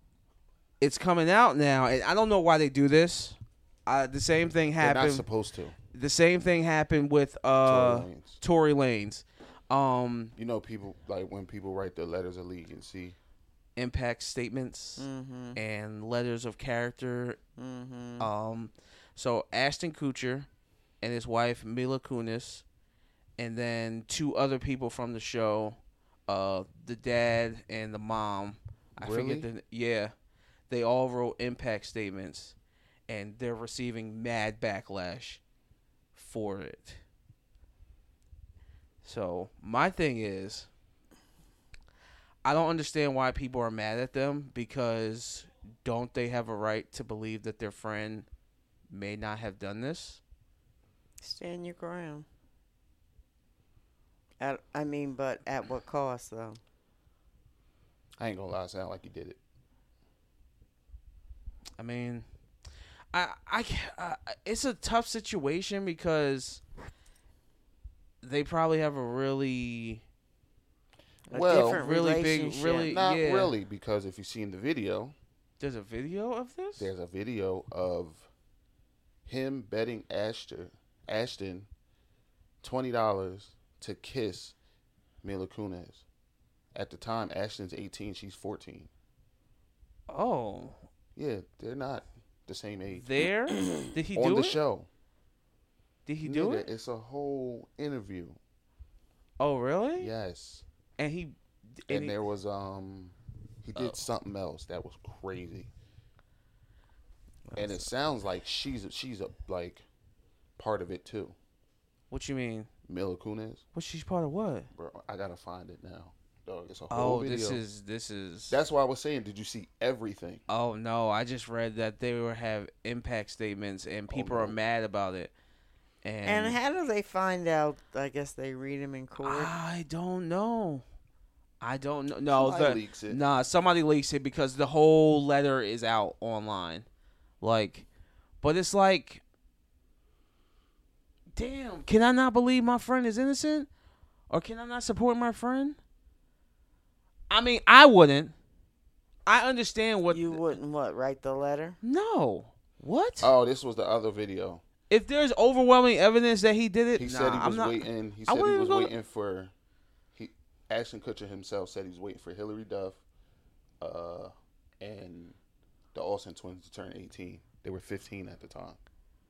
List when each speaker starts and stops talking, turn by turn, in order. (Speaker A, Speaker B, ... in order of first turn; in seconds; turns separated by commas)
Speaker A: 0.8-5.3, Speaker B: 4.8-5.8, Speaker A: 5.9-10.3, Speaker B: 7.6-8.4, Speaker B: 10.4-13.2, Speaker A: 13.8-17.4, Speaker C: 15.0-15.6, Speaker C: 17.6-18.3, Speaker A: 18.2-20.5, Speaker A: 21.0-22.6, Speaker A: 23.4-30.1, Speaker B: 29.0-29.5, Speaker A: 30.7-32.5, Speaker A: 33.1-35.4, Speaker A: 36.1-37.0, Speaker A: 39.0-40.7, Speaker A: 42.4-48.3, Speaker A: 48.9-50.2, Speaker C: 51.2-52.3, Speaker C: 54.4-56.6, Speaker B: 58.2-59.4, Speaker A: 61.8-62.2, Speaker A: 63.1-66.6, Speaker A: 68.2-70.0, Speaker C: 71.3-72.9, Speaker B: 71.3-71.8, Speaker A: 71.3-73.5, Speaker B: 72.8-75.2, Speaker A: 75.6-76.9, Speaker B: 76.8-78.3, Speaker B: 79.3-81.7, Speaker B: 82.6-84.6, Speaker B: 85.2-86.0, Speaker B: 86.7-88.9, Speaker A: 90.1-90.8, Speaker B: 91.2-93.1, Speaker A: 93.0-94.6, Speaker B: 94.1-94.9, Speaker A: 96.1-96.7, Speaker B: 96.2-98.4, Speaker A: 99.4-100.1, Speaker B: 100.0-100.6, Speaker A: 101.0-102.2, Speaker B: 101.9-105.7, Speaker A: 103.8-104.0, Speaker A: 107.5-107.9, Speaker B: 107.6-109.8, Speaker B: 110.6-111.3, Speaker A: 112.1-112.7, Speaker B: 112.9-113.6, Speaker A: 113.7-114.7, Speaker B: 114.8-117.6, Speaker A: 116.9-118.5, Speaker B: 118.5-120.4, Speaker A: 120.5-125.3, Speaker B: 124.1-124.6, Speaker A: 126.0-126.6, Speaker C: 126.2-129.5, Speaker A: 129.2-130.8, Speaker A: 131.6-136.9, Speaker B: 132.3-133.2, Speaker A: 137.4-137.8, Speaker A: 138.4-139.2, Speaker A: 141.3-143.7, Speaker A: 144.3-145.8, Speaker A: 147.3-148.3, Speaker A: 149.3-150.4, Speaker C: 150.1-151.8, Speaker A: 151.8-153.3, Speaker B: 153.2-154.6, Speaker A: 154.9-158.9, Speaker B: 157.0-159.5, Speaker B: 160.2-163.0, Speaker B: 163.8-165.4, Speaker B: 165.9-168.8